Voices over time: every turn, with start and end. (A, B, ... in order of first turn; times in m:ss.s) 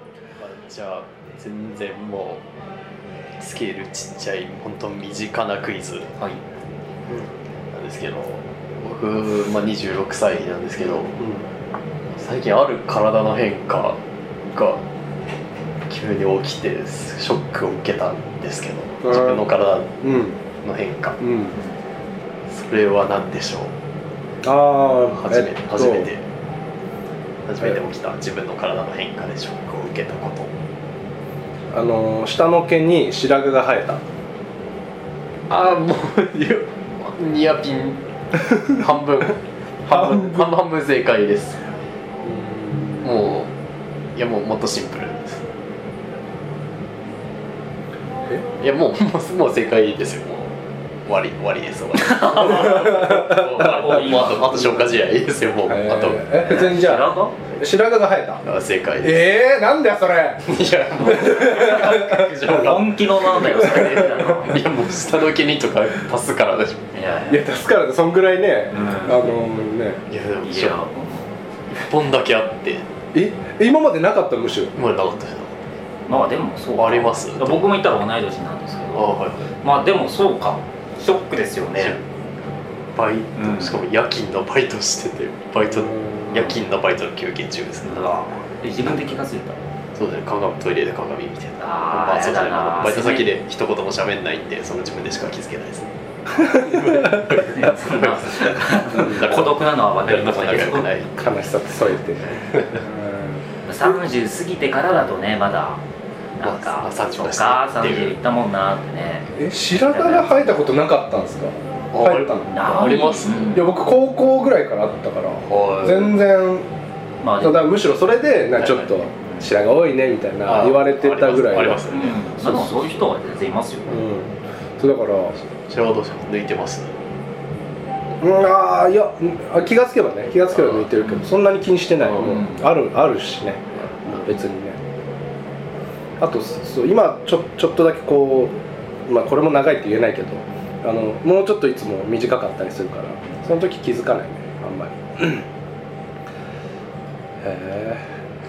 0:00.4-0:02.4 A
0:03.4-0:06.1 A
0:06.2-0:06.4 B
0:07.7-0:11.2 A
0:12.1-0:14.0 A
0:14.5-0:14.8 A
0:15.9-0:20.0 A
0:19.0-0:19.4 C
0:20.0-0:20.4 C
0:20.6-0:21.2 A
0:21.2-0:21.6 C
0:22.5-0:23.7 A
0:24.4-0:26.1 C
0:25.1-0:26.2 A
0:27.4-0:30.6 A
0:31.7-0:34.0 C
0:35.5-0:41.6 A
0:42.3-0:43.0 C
0:43.0-0:43.5 A
0:44.2-0:45.4 A
0:48.6-0:56.6 A
0:52.1-0:52.5 B
0:52.7-0:53.4 C
0:53.3-0:54.8 B
0:55.7-0:58.4 C
0:56.3-0:57.4 B
0:58.4-0:59.3 A
0:59.0-1:02.3 C
1:00.5-1:06.9 A
1:01.6-1:04.8 B
1:03.7-1:04.2 C
1:06.9-1:07.5 B
1:07.3-1:10.0 C
1:08.7-1:09.3 B
1:10.1-1:10.8 A
1:10.4-1:11.3 B
1:11.7-1:12.9 A
1:13.1-1:14.7 C
1:14.8-1:15.7 A
1:16.1-1:22.0 B
1:16.8-1:17.7 A
1:18.9-1:19.5 A
1:21.8-1:22.0 A
1:23.0-1:29.0 A
1:23.4-1:23.8 B
1:25.9-1:26.3 C
1:27.8-1:29.6 B
1:30.0-1:41.3 A
1:31.6-1:33.3 B
1:36.7-1:40.9 B
1:41.2-1:43.4 C
1:42.4-1:42.8 A
1:43.6-1:45.8 B
1:46.4-1:50.6 B
1:46.4-1:48.2 A
1:49.4-1:56.7 C
1:51.9-1:53.6 A
1:52.5-1:53.7 B
1:55.5-1:56.2 A
1:57.2-1:57.6 B
1:57.4-2:01.8 C
1:58.6-1:59.5 B
2:00.5-2:02.9 A
2:01.9-2:04.0 B
2:03.9-2:05.4 C
2:05.6-2:06.9 A
2:08.2-2:14.8 C
2:10.6-2:10.9 A
2:11.0-2:11.3 B
2:12.0-2:12.4 A
2:12.1-2:12.6 B
2:16.2-2:18.5 C
2:19.1-2:25.5 C
2:27.4-2:28.0 C